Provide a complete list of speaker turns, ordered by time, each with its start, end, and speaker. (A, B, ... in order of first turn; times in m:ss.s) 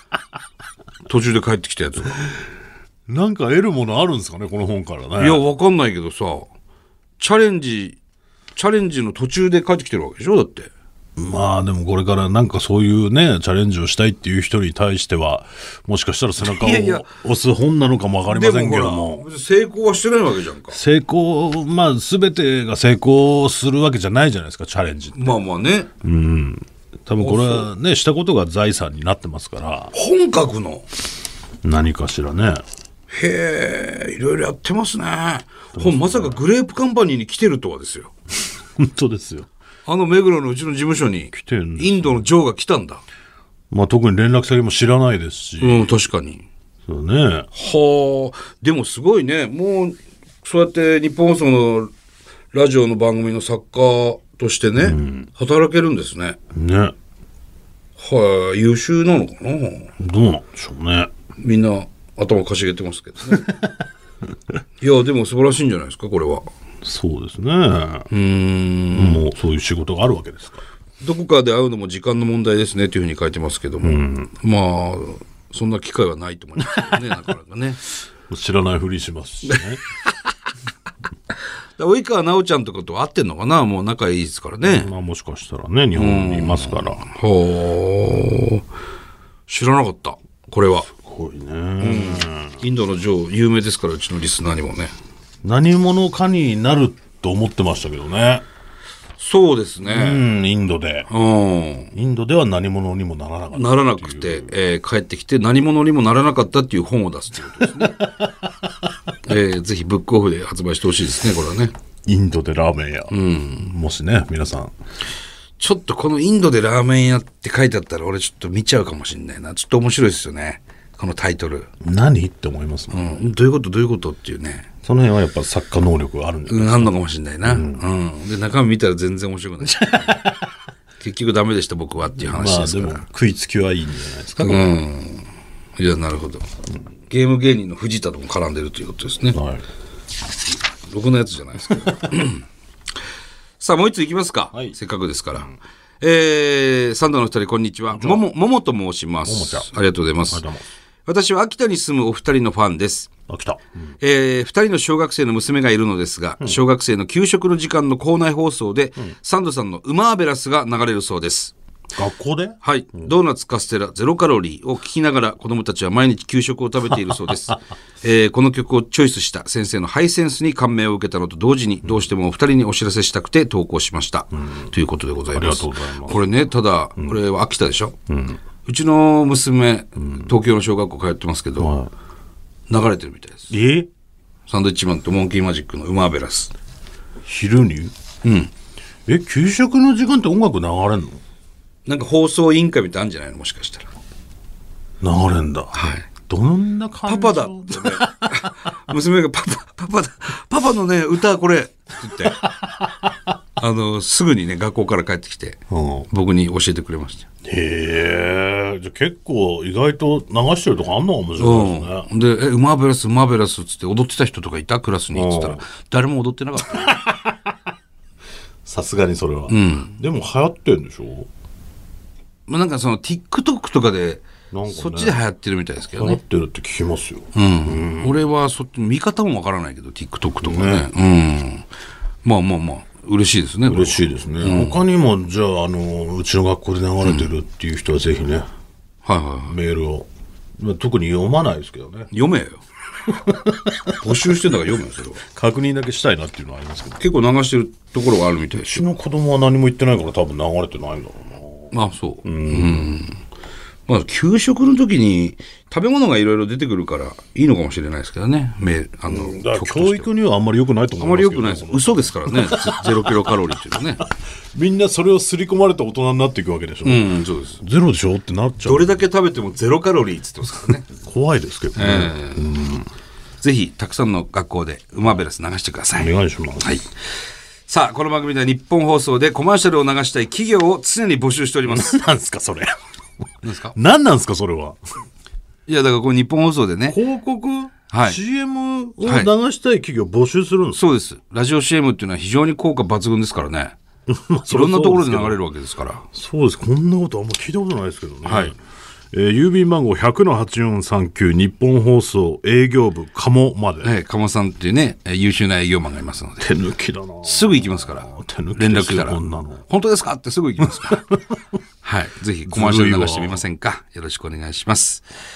0:01.0-0:02.4 A
0:03.1-0:05.4 B
0:05.2-0:06.5 A
0:07.2-0:08.0 A
0:08.5-0:10.7 A
0:11.2-0:19.2 B
0:16.4-0:17.1 A
0:18.3-0:20.8 A
0:20.7-0:25.4 B
0:25.1-0:25.9 A
0:26.0-0:29.9 B
0:27.2-0:27.7 A
0:29.9-0:30.8 A
0:31.6-0:32.6 B
0:33.1-0:38.1 A
0:35.7-0:36.4 B
0:38.8-0:39.5 B
0:39.8-0:43.0 A
0:41.3-0:42.2 B
0:43.7-0:45.9 B
0:45.6-0:46.4 A
0:46.9-0:47.5 B
0:47.5-0:51.9 A
0:52.5-0:56.4 A
0:54.8-0:55.3 B
0:56.5-0:56.9 B
0:58.0-0:59.9 A
1:00.0-1:01.1 B
1:01.4-1:03.5 A
1:04.8-1:06.4 A
1:06.8-1:08.1 B
1:08.1-1:09.2 A
1:08.9-1:10.6 B
1:11.0-1:17.8 A
1:13.8-1:14.3 B
1:18.3-1:19.8 B
1:19.5-1:20.1 A
1:21.8-1:24.9 A
1:24.6-1:27.0 B
1:25.9-1:28.6 A
1:29.5-1:30.9 A
1:31.0-1:32.6 B
1:31.8-1:34.9 A
1:35.4-1:38.4 B
1:39.2-1:40.2 A
1:39.8-1:41.1 B
1:41.1-1:41.9 A
1:41.9-1:44.5 B
1:43.5-1:48.0 A
1:49.2-1:51.7 A
1:52.0-1:54.7 B
1:53.1-1:53.7 A
1:55.6-2:01.7 A
2:01.8-2:03.2 B
2:02.9-2:04.7 A
2:04.8-2:06.9 B
2:06.5-2:10.2 A
2:07.4-2:07.8 B
2:09.6-2:10.5 B
2:11.0-2:13.0 A
2:12.2-2:14.7 B
2:14.4-2:16.5 A
2:17.1-2:19.4 A
2:19.3-2:19.6 B
2:20.9-2:22.4 A
2:23.6-2:30.4 A
2:27.9-2:28.2 B
2:29.2-2:29.7 B
2:30.3-2:30.6 B
2:31.0-2:33.1 A
2:33.3-2:33.7 B
2:34.0-2:41.5 A
2:42.0-2:43.1 B
2:42.6-2:57.9 A
2:55.3-2:56.2 B
2:58.1-2:58.4 B
2:58.6-3:01.7 A
3:01.6-3:01.9 B
3:02.7-3:03.5 A
3:03.5-3:03.9 B
3:04.5-3:06.5 A
3:07.2-3:07.9 B
3:08.2-3:08.5 A
3:09.1-3:11.2 B
3:11.8-3:13.9 A
3:15.0-3:18.5 B
3:15.7-3:16.0 A
3:17.0-3:22.4 A
3:22.2-3:23.1 B
3:23.6-3:27.2 A
3:25.7-3:26.1 B
3:27.4-3:32.1 B
3:31.4-3:37.0 A
3:35.1-3:35.6 B
3:36.6-3:37.6 B
3:38.6-3:41.3 B
3:39.5-3:39.9 A
3:42.5-3:46.2 A
3:44.5-3:45.2 B
3:45.9-3:48.2 B
3:47.3-3:51.6 A
3:50.4-3:50.9 B
3:52.2-3:54.8 A
3:53.7-3:58.5 B
3:57.0-3:57.3 A
3:59.0-3:59.6 A
3:59.5-4:00.1 B
4:00.6-4:02.1 B
4:02.1-4:02.6 A
4:03.1-4:04.0 B
4:04.0-4:05.2 A
4:05.3-4:07.0 B
4:07.0-4:08.8 A
4:08.5-4:12.9 B
4:11.7-4:13.2 A
4:13.9-4:20.1 A
4:19.1-4:23.3 B
4:21.0-4:24.0 A
4:24.5-4:29.0 B
4:26.8-4:27.6 A
4:28.6-4:30.8 A
4:30.9-4:32.9 B
4:31.7-4:32.4 A
4:33.4-4:36.1 A
4:36.0-4:36.8 B
4:37.7-4:42.0 A
4:41.7-4:42.8 B
4:43.4-4:43.7 A
4:43.7-4:44.8 B
4:45.7-4:47.0 A
4:46.9-4:50.8 B
4:47.9-4:48.2 A
4:49.0-4:49.3 A
4:50.7-4:53.8 A
4:54.1-4:55.4 B
4:54.5-4:56.0 A
4:56.1-4:58.6 B
4:58.2-4:58.5 A
4:59.1-5:03.9 B
5:03.8-5:06.4 A
5:06.4-5:09.6 B
5:07.2-5:11.1 A
5:10.6-5:11.4 B
5:11.8-5:15.0 A
5:12.5-5:13.4 B